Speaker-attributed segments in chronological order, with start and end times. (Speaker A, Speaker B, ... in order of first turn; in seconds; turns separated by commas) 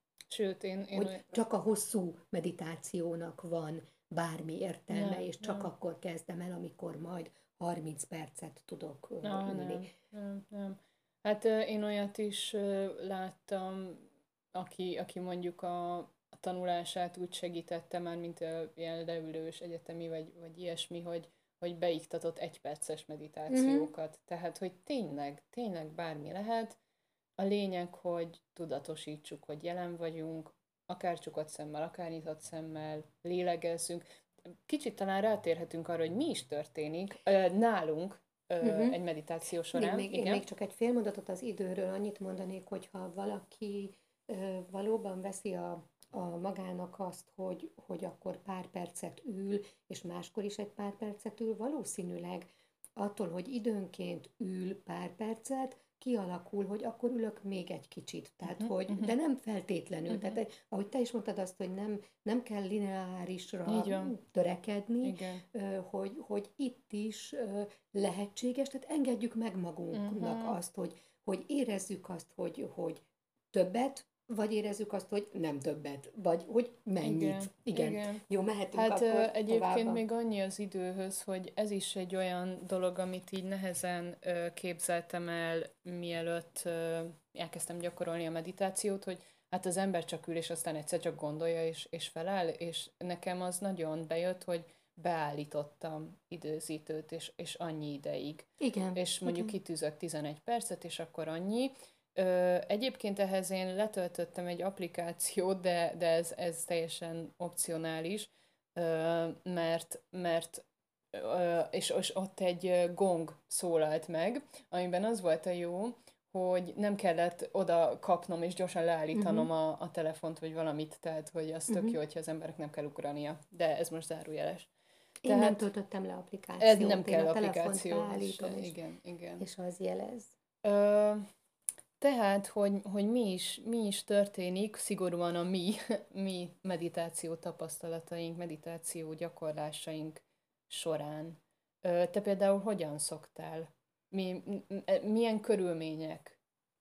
Speaker A: 0.3-1.3, Speaker B: 0.9-9.9, Speaker A: 4.9-5.7, Speaker A: 9.2-26.8, Speaker B: 23.5-23.9, Speaker A: 27.4-40.4, Speaker B: 38.6-39.0, Speaker B: 39.7-80.0, Speaker A: 58.5-59.1, Speaker A: 60.1-60.4, Speaker A: 63.6-64.1, Speaker A: 65.0-65.4, Speaker A: 69.9-70.6, Speaker A: 77.0-78.2, Speaker A: 78.7-124.7, Speaker B: 98.6-99.5, Speaker B: 119.1-119.5, Speaker B: 121.7-122.0, Speaker A: 125.2-125.7, Speaker B: 125.2-128.7, Speaker A: 126.6-129.4, Speaker B: 129.4-130.3, Speaker A: 130.6-131.3, Speaker A: 132.0-146.4